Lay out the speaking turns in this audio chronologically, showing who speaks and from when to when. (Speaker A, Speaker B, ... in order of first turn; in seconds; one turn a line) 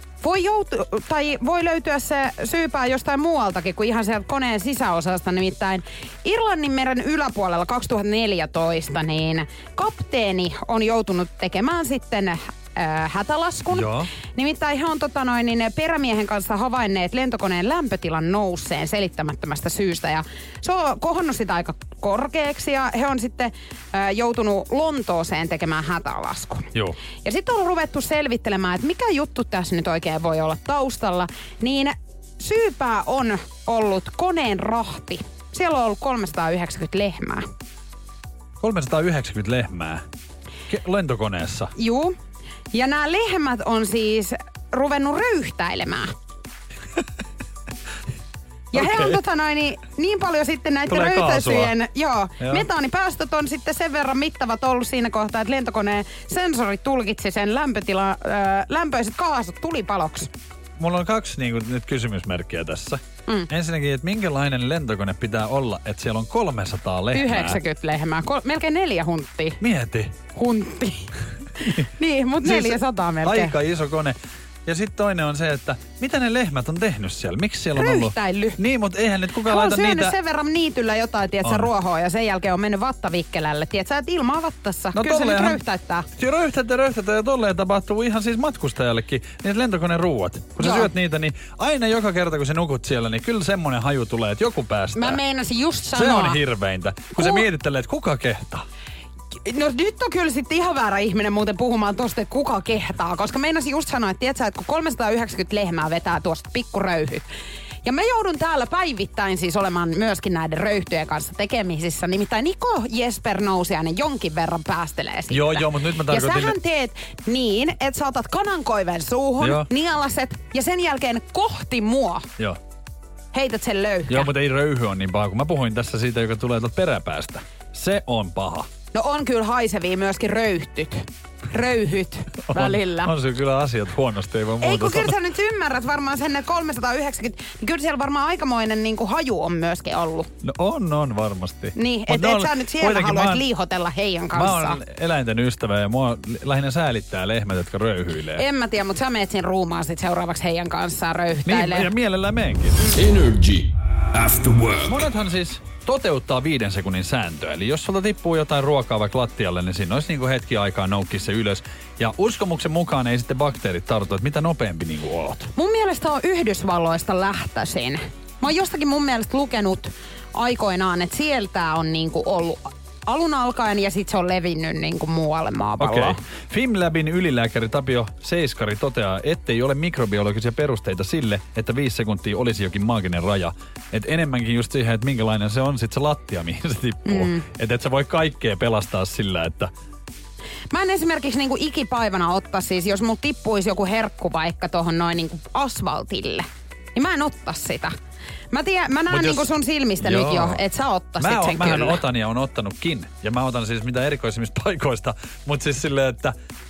Speaker A: 0.2-26.7
Speaker B: 13.7-14.1
Speaker A: 27.2-37.4
Speaker B: 38.6-40.0
Speaker B: 40.7-41.7
Speaker A: 41.8-42.1
Speaker A: 42.7-46.1
Speaker A: 48.7-60.3
Speaker B: 48.7-49.2
Speaker B: 50.9-51.7
Speaker B: 52.4-52.7
Speaker B: 60.8-67.6
Speaker A: 67.1-69.6
Speaker B: 69.6-70.1
Speaker A: 70.3-73.5
Speaker B: 72.4-80.1
Speaker A: 77.7-78.6
Speaker A: 79.5-86.0
Speaker B: 81.4-81.7
Speaker B: 84.9-85.6
Speaker B: 86.2-95.2
Speaker A: 90.6-90.9
Speaker A: 95.0-96.4
Speaker B: 95.9-98.6
Speaker A: 97.1-97.4
Speaker A: 99.4-107.2
Speaker A: 107.8-122.3
Speaker B: 115.3-116.5
Speaker B: 119.4-119.7
Speaker A: 123.3-124.3
Speaker B: 124.1-128.7
Speaker A: 128.9-133.1
Speaker B: 132.5-135.1
Speaker A: 134.6-140.3
Speaker B: 140.4-143.4
Speaker A: 141.8-144.8
Speaker B: 144.3-148.4
Speaker A: 148.4-151.9
Speaker B: 151.4-152.8
Speaker C: 152.9-155.1
Speaker B: 154.9-165.5
Speaker A: 165.5-176.2
Speaker B: 175.8-189.7
Speaker A: 187.1-187.4
Speaker A: 190.7-197.9
Speaker A: 198.5-202.0
Speaker B: 199.1-199.5
Speaker B: 200.0-200.6
Speaker B: 201.2-206.3